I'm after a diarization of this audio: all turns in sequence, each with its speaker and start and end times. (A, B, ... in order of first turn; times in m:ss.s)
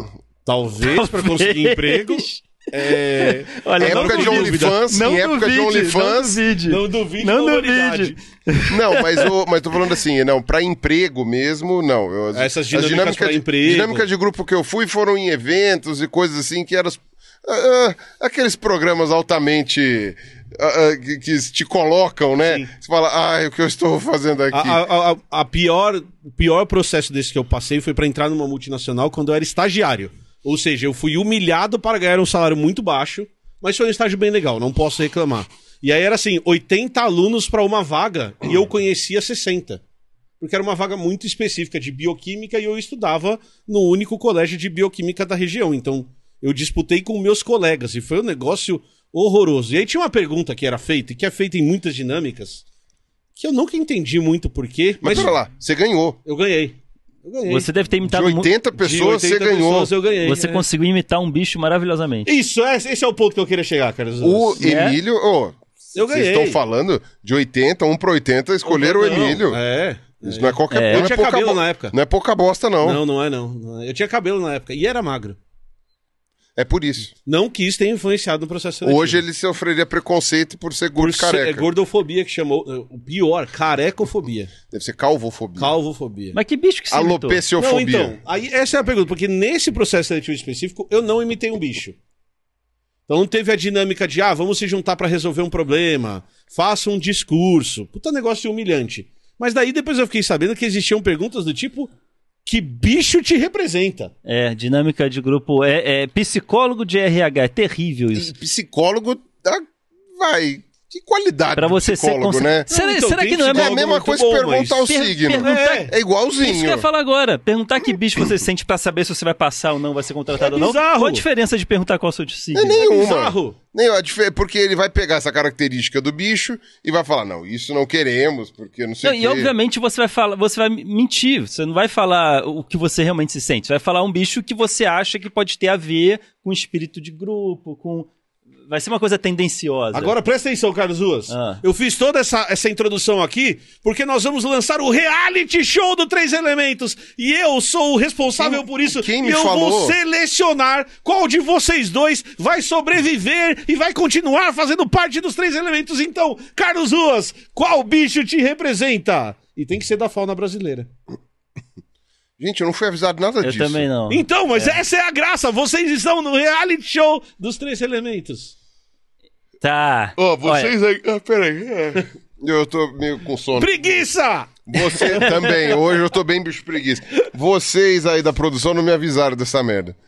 0:00.4-0:04.8 A
0:00.8-0:09.3 B
0:03.8-0:06.4 C
0:06.7-0:08.2 A
0:08.7-0:24.8 C
0:12.3-0:14.1 A
0:22.4-0:22.7 A
0:24.5-0:39.8 A
0:40.4-0:52.6 A
0:53.4-0:55.4 A
0:55.0-0:56.2 C
0:56.2-0:57.7 A
0:57.4-0:58.5 B
0:58.0-0:59.9 C
0:58.7-1:00.6 A
1:00.2-1:02.3 B
1:02.2-1:04.6 A
1:04.2-1:09.6 C
1:04.6-1:05.0 B
1:05.9-1:06.6 A
1:08.7-1:11.9 A
1:10.2-1:13.0 C
1:10.7-1:11.1 B
1:12.8-1:15.4 A
1:16.6-1:17.1 C
1:17.2-1:19.2 A
1:18.8-1:21.7 C
1:21.0-1:24.5 A
1:24.7-1:25.7 C
1:25.6-1:26.4 A
1:26.3-1:27.4 B
1:26.9-1:28.2 C
1:27.6-1:32.0 A
1:33.1-1:41.9 A
1:42.4-1:44.1 A
1:44.2-1:48.3 B
1:48.1-1:49.6 C
1:50.1-1:52.7 C
1:51.6-1:53.8 B
1:52.7-1:54.9 A
1:53.5-1:56.8 C
1:54.9-2:02.8 B
1:55.4-1:55.9 A
2:00.4-2:01.2 A
2:02.5-2:09.5 C
2:02.8-2:03.6 A
2:09.0-2:18.1 B
2:18.7-2:20.1 B
2:19.9-2:40.9 A
2:21.3-2:21.6 B
2:28.4-2:30.0 C
2:42.4-2:43.8 C
2:43.4-2:44.8 B
2:44.1-2:48.5 A
2:49.6-2:50.7 B
2:50.2-2:53.8 C
2:53.6-2:55.8 A
2:54.7-3:00.0 C